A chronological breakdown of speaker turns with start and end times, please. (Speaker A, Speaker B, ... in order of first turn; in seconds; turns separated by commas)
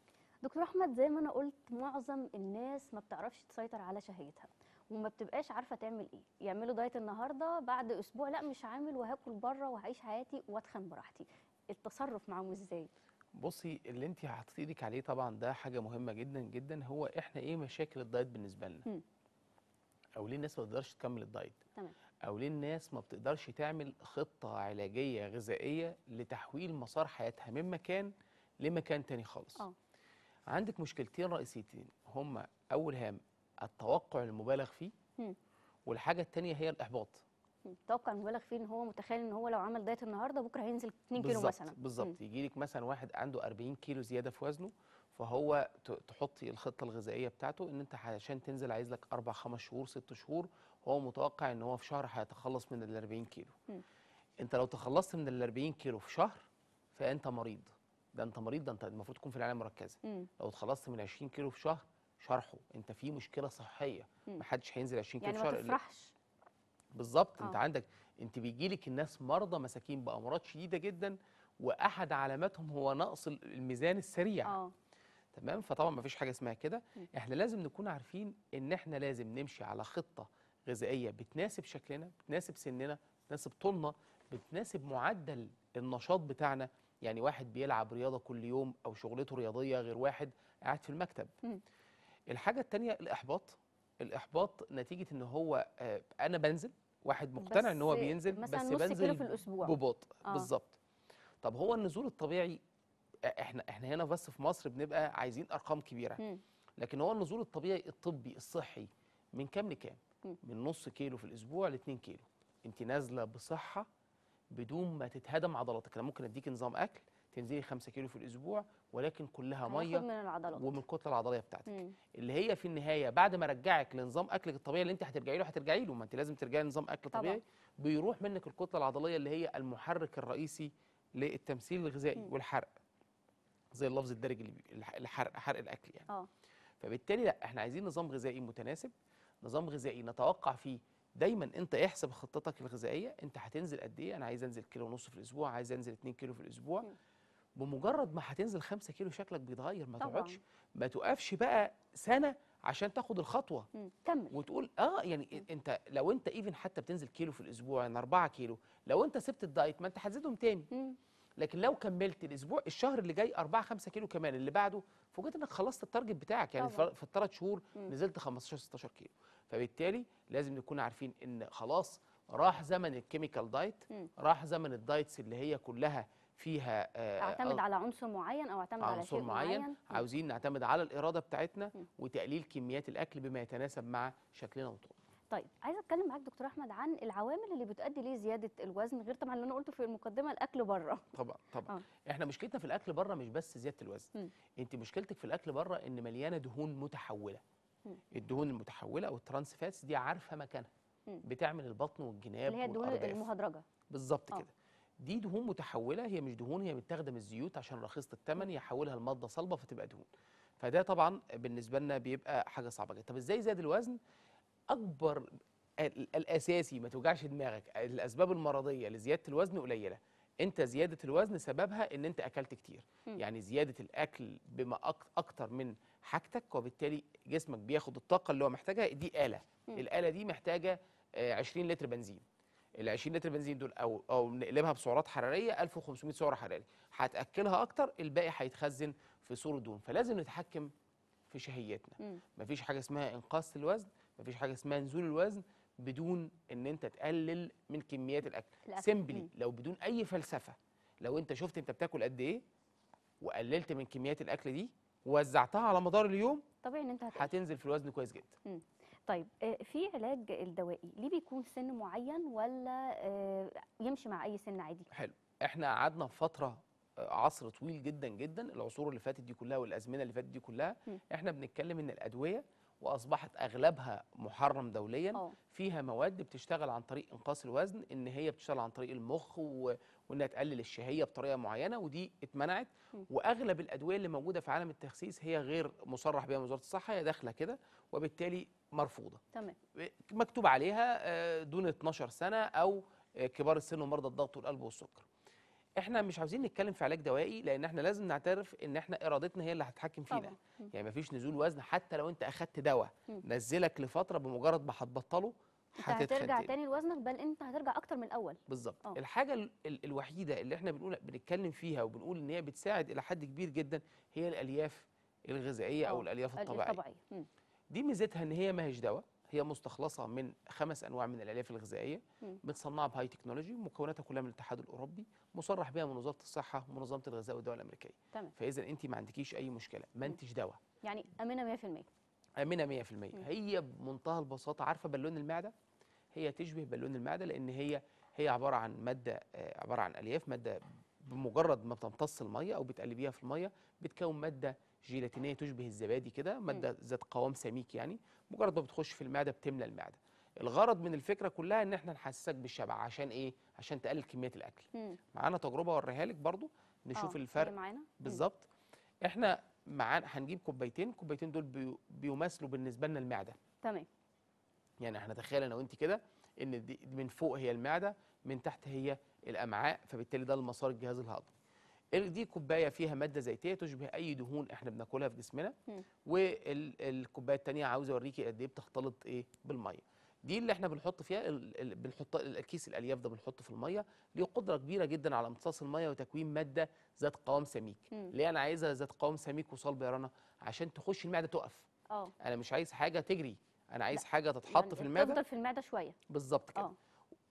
Speaker A: 0.4-12.9, Speaker B: 13.4-18.9, Speaker B: 20.1-21.6, Speaker B: 22.2-29.6, Speaker B: 30.5-34.9, Speaker B: 35.9-37.2, Speaker A: 37.6-42.1, Speaker B: 41.2-53.5, Speaker B: 54.4-56.4, Speaker B: 57.0-65.8, Speaker A: 65.2-66.1, Speaker B: 66.9-74.5, Speaker A: 74.5-74.7, Speaker B: 75.3-91.3, Speaker B: 92.3-100.8, Speaker A: 97.4-100.5, Speaker B: 101.4-102.6, Speaker B: 103.2-106.2, Speaker B: 106.8-113.9, Speaker B: 114.5-132.7, Speaker A: 119.7-120.8, Speaker A: 121.7-121.9, Speaker A: 127.1-127.4, Speaker B: 133.7-136.1, Speaker B: 136.8-146.9, Speaker B: 147.6-153.7, Speaker A: 150.0-150.4, Speaker A: 153.8-154.3, Speaker B: 154.3-160.7, Speaker A: 160.7-161.0, Speaker B: 161.4-177.6, Speaker A: 166.6-166.9, Speaker A: 177.2-180.0, Speaker B: 178.8-184.9, Speaker A: 185.3-191.1, Speaker B: 191.1-197.4, Speaker B: 198.1-200.7, Speaker B: 201.2-203.3, Speaker A: 202.5-203.6, Speaker B: 203.9-210.1, Speaker B: 210.6-214.0, Speaker B: 214.7-215.2, Speaker B: 215.8-232.2, Speaker B: 232.8-240.7, Speaker B: 241.3-252.4, Speaker A: 248.7-249.3, Speaker B: 253.2-256.4, Speaker A: 256.6-257.3, Speaker B: 257.1-258.3, Speaker A: 258.4-264.9, Speaker B: 264.9-289.2, Speaker B: 289.8-295.1, Speaker B: 295.8-306.5, Speaker A: 300.1-300.7, Speaker A: 305.8-309.0, Speaker B: 308.5-316.8, Speaker A: 315.9-317.3, Speaker B: 317.7-330.6, Speaker A: 330.8-331.9, Speaker B: 332.4-335.5, Speaker B: 336.1-358.5, Speaker A: 356.9-358.2, Speaker B: 359.0-363.4, Speaker B: 364.8-371.3, Speaker B: 371.9-375.5, Speaker B: 376.1-391.7, Speaker B: 392.2-395.2, Speaker A: 393.9-395.9, Speaker B: 396.1-396.7